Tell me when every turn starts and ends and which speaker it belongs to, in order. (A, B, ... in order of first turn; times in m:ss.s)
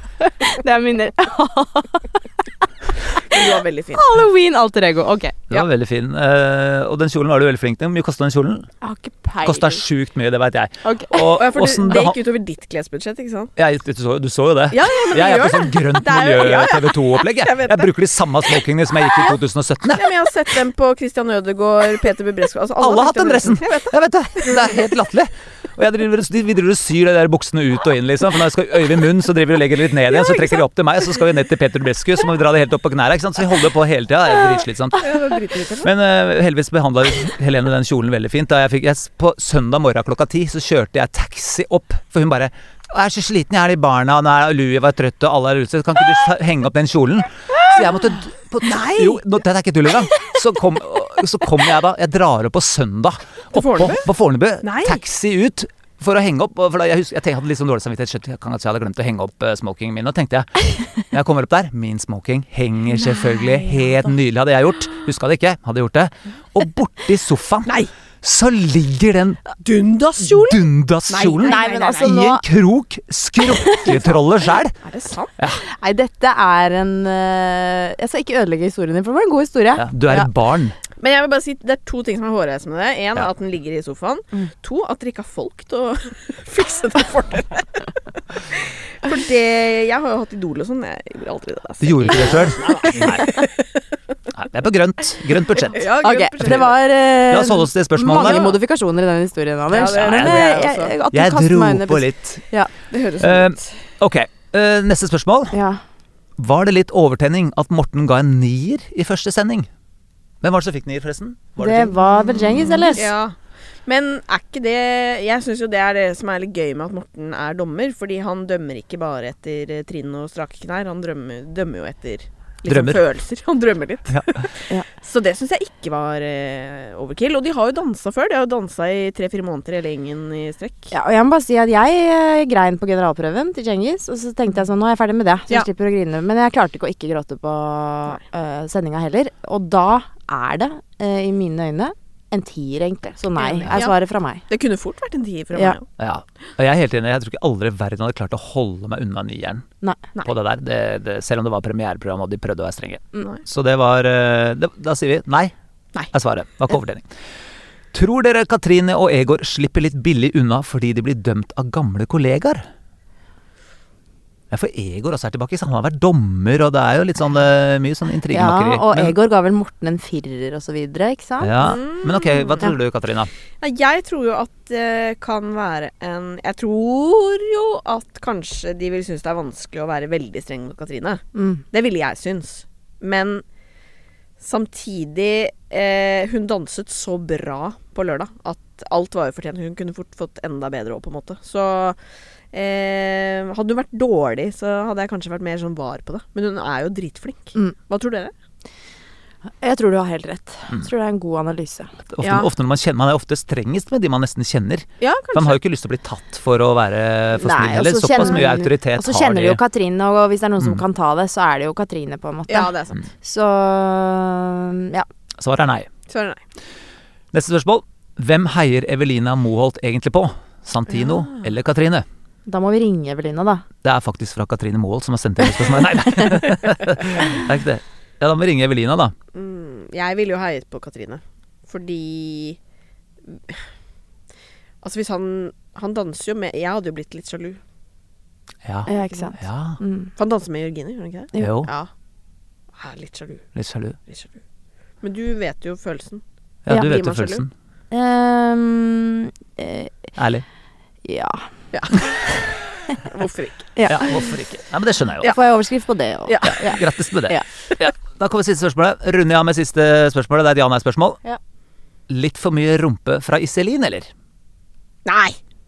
0:00.2-0:02.2 A
0:03.1-0:05.4 A
0:03.3-0:04.0 B
0:05.5-0:08.7 C
0:08.8-0:09.8 A
0:09.4-0:12.2 C
0:10.8-0:11.2 A
0:11.3-0:13.5 B
0:13.6-0:20.1 C
0:14.7-0:17.9 B
0:19.9-0:24.8 B
0:22.8-0:35.2 C
0:35.0-0:35.9 B
0:35.8-1:09.4 C
0:48.6-0:49.2 B
0:53.5-0:54.1 B
0:54.6-0:55.0 B
1:09.6-1:12.1 B
1:10.3-1:14.7 C
1:11.4-1:12.4 A
1:13.4-1:14.0 A
1:13.8-1:14.2 B
1:14.8-1:15.3 B
1:15.6-1:20.2 A
1:19.8-1:20.8 C
1:21.0-1:33.7 B
1:31.8-1:33.4 C
1:34.3-1:38.5 C
1:35.6-1:36.8 B
1:36.0-1:42.7 A
1:38.1-1:38.6 B
1:39.7-1:41.0 B
1:39.8-1:42.4 C
1:42.9-1:43.7 B
1:43.2-1:45.6 C
1:45.5-1:45.8 A
1:46.4-1:49.7 C
1:50.4-1:52.9 C
1:51.6-1:53.1 A
1:52.9-1:53.3 B
1:53.8-2:10.9 B
2:02.6-2:03.0 C
2:10.9-2:24.4 A
2:23.4-2:24.0 B
2:24.5-2:25.9 B
2:26.0-2:29.6 C
2:30.2-2:35.5 C
2:36.1-2:37.0 C
2:37.9-2:42.6 C
2:44.5-2:49.2 C
2:48.3-2:51.6 A
2:51.4-2:53.3 C
2:51.6-2:52.7 B
2:53.6-3:03.4 B
3:01.3-3:01.6 A
3:04.4-3:12.0 B
3:12.5-3:18.3 B
3:19.6-3:21.9 A
3:22.0-3:29.6 C
3:22.2-3:22.5 B
3:25.0-3:25.6 B
3:27.4-3:35.1 A
3:32.5-3:33.0 B
3:35.4-3:35.9 C
3:36.1-3:36.4 B
3:37.3-3:42.0 C
3:41.0-3:41.4 B
3:42.5-3:43.6 A
3:43.8-3:49.1 C
3:49.3-3:52.6 B
3:53.3-3:53.6 B
3:54.8-3:57.6 B
3:58.6-3:59.8 C
3:58.9-4:00.1 A
4:00.2-4:01.9 B
4:01.4-4:01.7 C
4:02.7-4:03.5 B
4:03.5-4:04.0 C
4:04.1-4:04.4 B
4:05.0-4:07.4 B
4:06.7-4:07.5 C
4:07.9-4:10.0 A
4:10.2-4:10.4 C
4:11.0-4:11.5 A
4:11.7-4:12.1 B
4:12.9-4:13.8 B
4:13.8-4:14.3 A
4:13.9-4:15.4 C
4:15.3-4:17.4 A
4:16.3-4:16.6 B
4:16.4-4:21.2 C
4:22.1-4:24.1 C
4:25.0-4:25.4 B